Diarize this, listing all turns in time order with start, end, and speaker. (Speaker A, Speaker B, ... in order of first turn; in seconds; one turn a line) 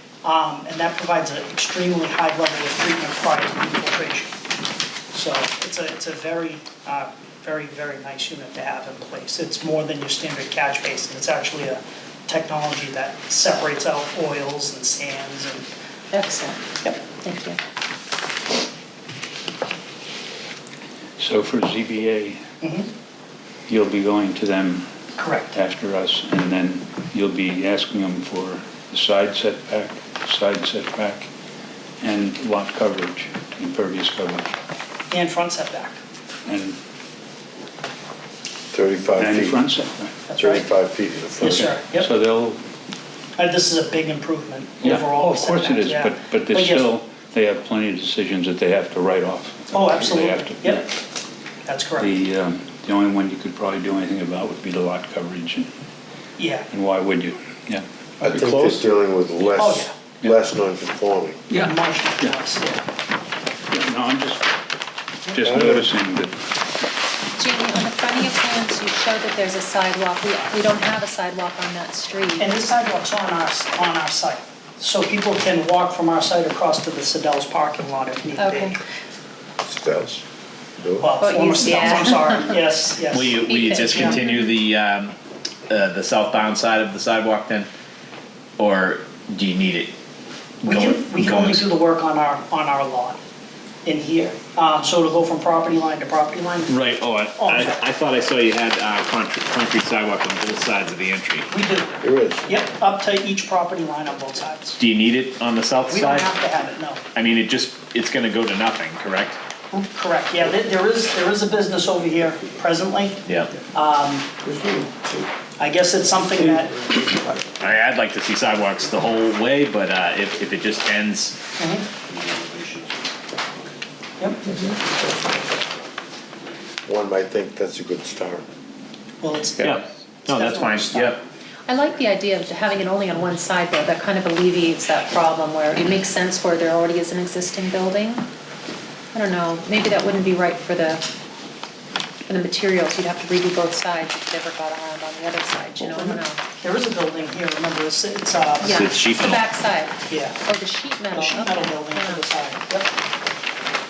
Speaker A: 0.2-4.3
Speaker A: 5.1-15.7
Speaker B: 16.1-17.6
Speaker C: 21.2-22.4
Speaker A: 22.6-22.9
Speaker C: 23.7-24.9
Speaker A: 25.2-25.6
Speaker C: 25.5-31.3
Speaker C: 32.0-34.5
Speaker A: 35.1-36.0
Speaker C: 36.5-36.8
Speaker D: 38.7-39.6
Speaker C: 39.1-40.2
Speaker A: 40.3-40.6
Speaker D: 40.4-41.6
Speaker A: 41.4-42.1
Speaker C: 41.5-42.6
Speaker A: 43.4-46.9
Speaker C: 44.8-50.8
Speaker A: 49.7-50.9
Speaker A: 51.7-52.1
Speaker C: 52.0-55.7
Speaker A: 56.4-56.7
Speaker C: 56.7-58.9
Speaker D: 58.2-61.4
Speaker A: 59.6-59.9
Speaker C: 61.5-62.4
Speaker A: 61.6-62.8
Speaker C: 63.7-64.4
Speaker C: 65.3-66.3
Speaker D: 65.4-65.9
Speaker B: 67.4-72.5
Speaker A: 72.4-78.8
Speaker B: 78.4-78.7
Speaker D: 79.6-80.2
Speaker D: 80.8-81.1
Speaker A: 81.0-84.2
Speaker B: 81.2-82.6
Speaker E: 83.1-85.2
Speaker B: 83.3-84.5
Speaker E: 85.7-87.7
Speaker E: 88.6-89.9
Speaker E: 90.6-91.6
Speaker A: 90.7-93.2
Speaker A: 93.8-96.8
Speaker E: 96.7-101.5
Speaker A: 97.3-97.8
Speaker A: 101.5-104.8
Speaker D: 102.0-102.5
Speaker E: 104.8-106.3
Speaker A: 105.9-107.0
Speaker E: 107.2-109.4
Speaker A: 109.7-114.3
Speaker E: 113.3-113.5
Speaker A: 115.6-116.8
Speaker E: 117.6-121.4
Speaker A: 121.6-121.9
Speaker A: 124.2-124.5
Speaker D: 126.9-128.5
Speaker A: 129.2-131.2
Speaker E: 129.6-131.2
Speaker B: 131.7-138.3
Speaker B: 139.1-141.0
Speaker B: 142.3-146.4
Speaker A: 145.8-148.9
Speaker B: 148.6-152.3
Speaker E: 148.6-149.4
Speaker A: 150.1-150.4
Speaker A: 151.1-152.9